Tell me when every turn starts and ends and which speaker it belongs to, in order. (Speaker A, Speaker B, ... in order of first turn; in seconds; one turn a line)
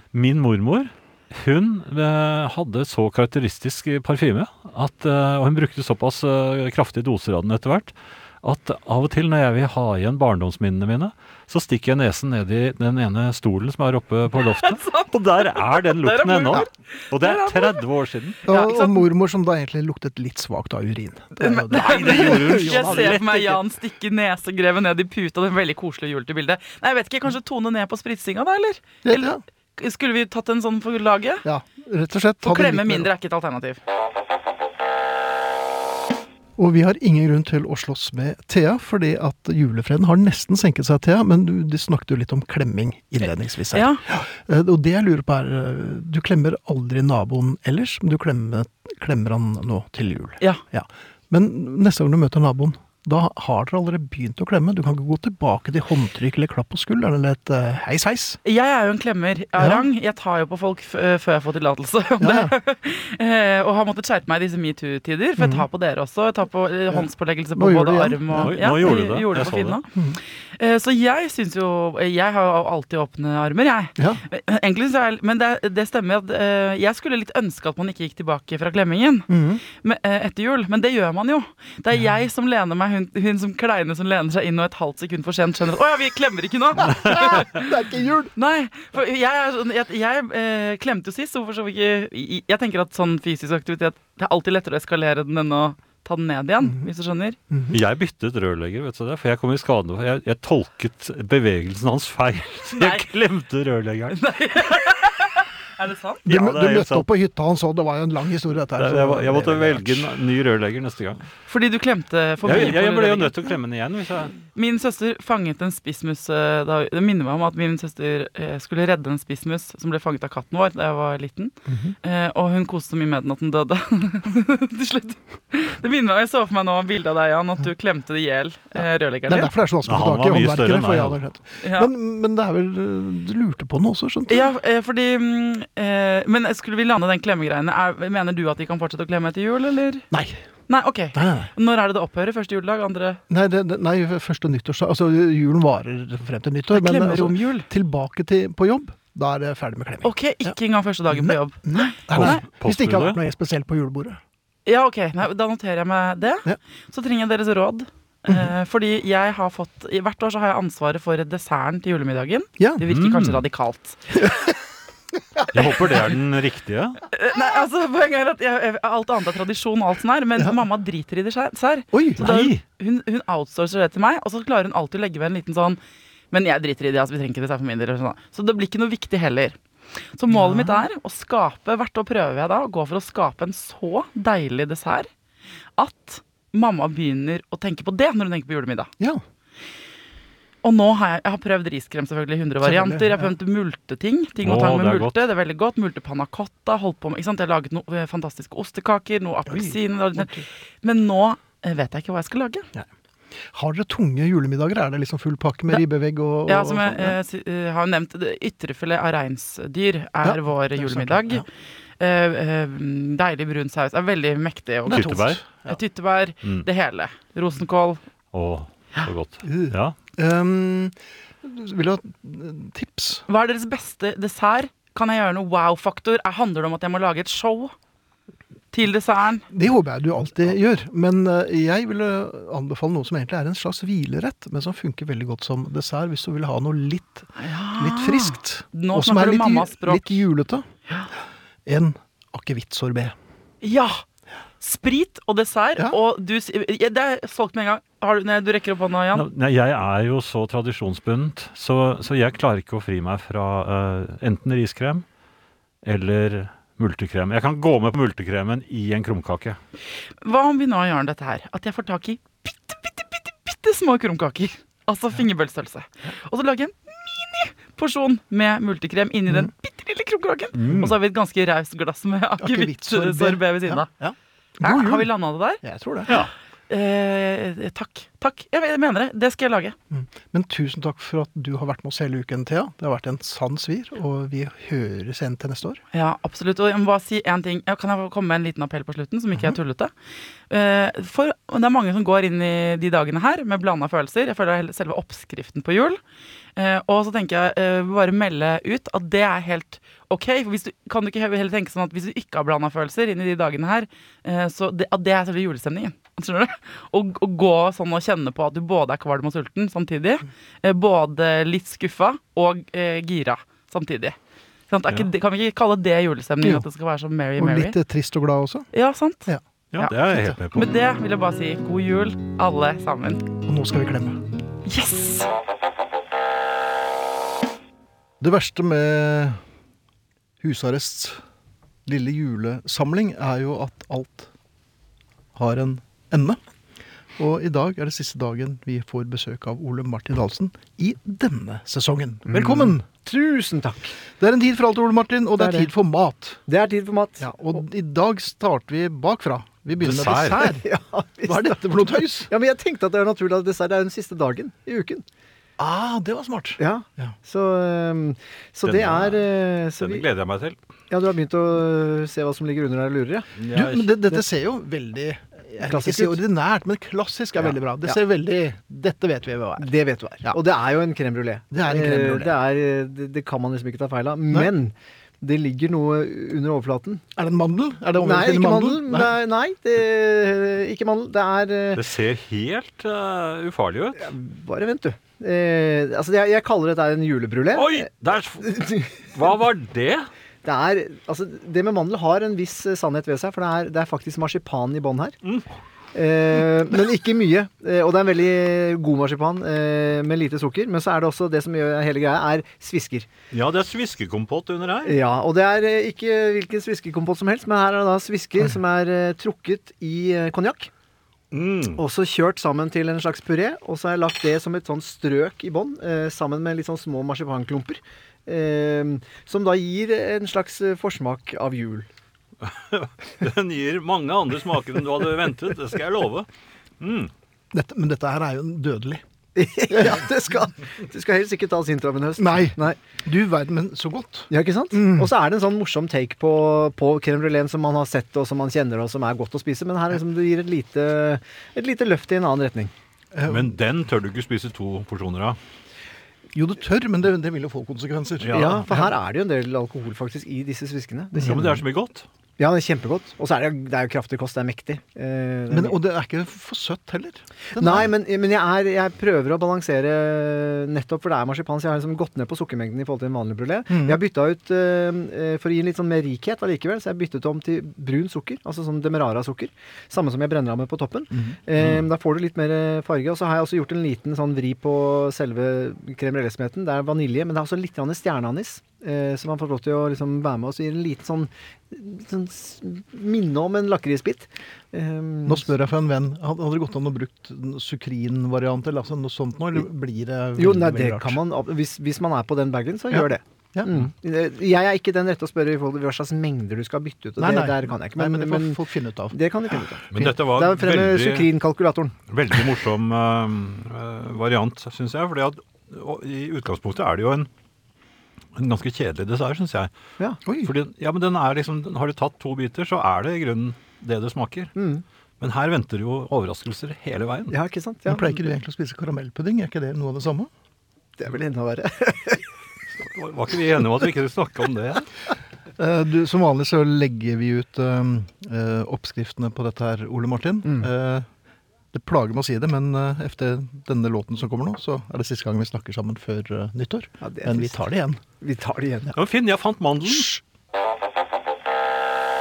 Speaker A: 0.1-18.4
Speaker B: 14.3-17.8
Speaker B: 18.4-19.1
Speaker C: 18.4-23.1
Speaker B: 21.4-31.4
Speaker A: 21.7-23.6
Speaker C: 29.0-29.4
Speaker C: 31.4-33.1
Speaker B: 32.4-33.8
Speaker C: 36.6-58.4
Speaker B: 43.7-44.0
Speaker B: 58.4-69.9
Speaker C: 59.6-59.9
Speaker C: 62.2-62.5
Speaker C: 65.4-65.7
Speaker C: 66.9-69.0
Speaker A: 68.4-69.8
Speaker C: 69.9-70.2
Speaker B: 70.5-87.7
Speaker C: 74.0-74.2
Speaker C: 79.3-79.6
Speaker C: 86.8-88.3
Speaker B: 88.3-97.4
Speaker A: 97.7-104.2
Speaker B: 102.8-103.0
Speaker B: 104.1-106.2
Speaker C: 106.2-110.2
Speaker A: 106.3-107.1
Speaker A: 108.8-111.3
Speaker B: 111.5-113.4
Speaker A: 112.4-114.3
Speaker B: 114.5-129.5
Speaker C: 121.7-122.0
Speaker C: 128.7-134.5
Speaker A: 129.8-131.2
Speaker B: 131.6-131.9
Speaker B: 134.3-140.1
Speaker C: 140.1-140.4
Speaker B: 140.7-143.2
Speaker C: 141.1-141.5
Speaker C: 143.3-150.6
Speaker B: 146.7-147.7
Speaker B: 150.0-152.4
Speaker C: 151.1-154.2
Speaker A: 152.1-153.2
Speaker B: 154.7-164.3
Speaker C: 162.6-162.8
Speaker A: 162.9-163.4
Speaker C: 164.2-164.5
Speaker C: 165.3-166.1
Speaker A: 165.5-167.0
Speaker B: 167.1-175.8
Speaker C: 170.3-170.6
Speaker C: 171.9-172.3
Speaker A: 172.2-172.6
Speaker B: 176.3-179.6
Speaker B: 180.1-185.1
Speaker C: 180.3-180.8
Speaker B: 185.8-188.9
Speaker B: 190.6-200.3
Speaker C: 192.6-193.3
Speaker A: 194.4-195.2
Speaker C: 199.5-200.4
Speaker B: 200.8-202.7
Speaker C: 202.7-207.2
Speaker B: 206.5-211.4
Speaker C: 210.2-211.4
Speaker B: 212.0-218.0
Speaker C: 214.8-215.7
Speaker A: 214.9-215.4
Speaker A: 218.3-219.9
Speaker C: 219.4-223.2
Speaker B: 223.3-227.7
Speaker B: 228.7-229.4
Speaker C: 229.5-240.7
Speaker B: 237.3-240.2
Speaker C: 241.6-243.2
Speaker B: 243.6-244.0
Speaker B: 244.6-249.2
Speaker A: 249.1-255.0
Speaker A: 255.8-259.6
Speaker B: 260.2-273.9
Speaker A: 270.6-270.9
Speaker C: 272.4-275.1
Speaker B: 274.6-279.8
Speaker C: 275.6-276.1
Speaker C: 279.9-285.8
Speaker B: 285.9-289.9
Speaker B: 290.5-296.0
Speaker B: 296.6-314.1
Speaker B: 314.7-317.8
Speaker C: 317.4-318.7
Speaker B: 318.7-319.9
Speaker C: 319.2-320.4
Speaker A: 319.7-320.7
Speaker B: 320.5-323.3
Speaker C: 323.4-324.2
Speaker B: 324.6-325.3
Speaker C: 328.2-329.4
Speaker C: 330.4-331.2
Speaker C: 331.8-334.3
Speaker C: 335.3-336.4
Speaker C: 337.1-342.9
Speaker D: 342.3-344.0
Speaker C: 344.1-346.4
Speaker D: 345.4-345.7
Speaker D: 346.5-347.6
Speaker C: 347.2-350.6
Speaker A: 349.8-350.5
Speaker D: 350.4-355.1
Speaker C: 351.2-352.3
Speaker C: 355.6-357.1
Speaker D: 356.6-360.0
Speaker A: 358.6-360.6
Speaker D: 360.9-363.3
Speaker A: 363.4-363.9
Speaker C: 363.5-369.7
Speaker D: 365.6-366.2
Speaker D: 367.4-368.0
Speaker D: 369.6-377.0
Speaker C: 371.5-372.4
Speaker C: 377.1-379.1
Speaker D: 378.0-381.8
Speaker A: 381.7-384.1
Speaker D: 384.0-387.9
Speaker A: 387.5-390.1
Speaker D: 388.4-388.9
Speaker D: 390.4-395.2
Speaker D: 395.9-403.1
Speaker A: 403.3-405.0
Speaker D: 404.8-410.7
Speaker A: 411.3-411.8
Speaker D: 411.8-421.9
Speaker A: 422.4-426.3
Speaker A: 426.8-427.1
Speaker C: 427.5-429.0
Speaker D: 429.4-432.8
Speaker C: 429.7-430.0
Speaker C: 432.2-435.1
Speaker D: 434.3-442.7
Speaker C: 443.1-443.5
Speaker A: 443.2-445.4
Speaker C: 446.3-448.9
Speaker A: 448.2-448.9
Speaker D: 448.3-451.6
Speaker A: 451.2-452.1
Speaker D: 452.4-455.8
Speaker C: 455.5-457.9
Speaker D: 457.6-485.5
Speaker C: 463.7-464.0
Speaker A: 471.6-471.8
Speaker C: 485.2-491.2
Speaker D: 490.4-498.6
Speaker C: 492.9-493.8
Speaker C: 497.2-500.2
Speaker D: 499.1-501.9
Speaker A: 499.9-501.3
Speaker A: 502.1-507.3
Speaker A: 508.4-509.7
Speaker C: 510.2-510.5
Speaker A: 510.4-514.5
Speaker D: 514.5-514.8
Speaker A: 515.2-517.4
Speaker D: 517.3-518.2
Speaker C: 517.9-520.3
Speaker D: 521.0-522.2
Speaker A: 522.8-524.9
Speaker C: 525.5-531.1
Speaker C: 531.7-538.0
Speaker D: 537.0-537.6
Speaker D: 538.2-538.9
Speaker A: 538.9-540.2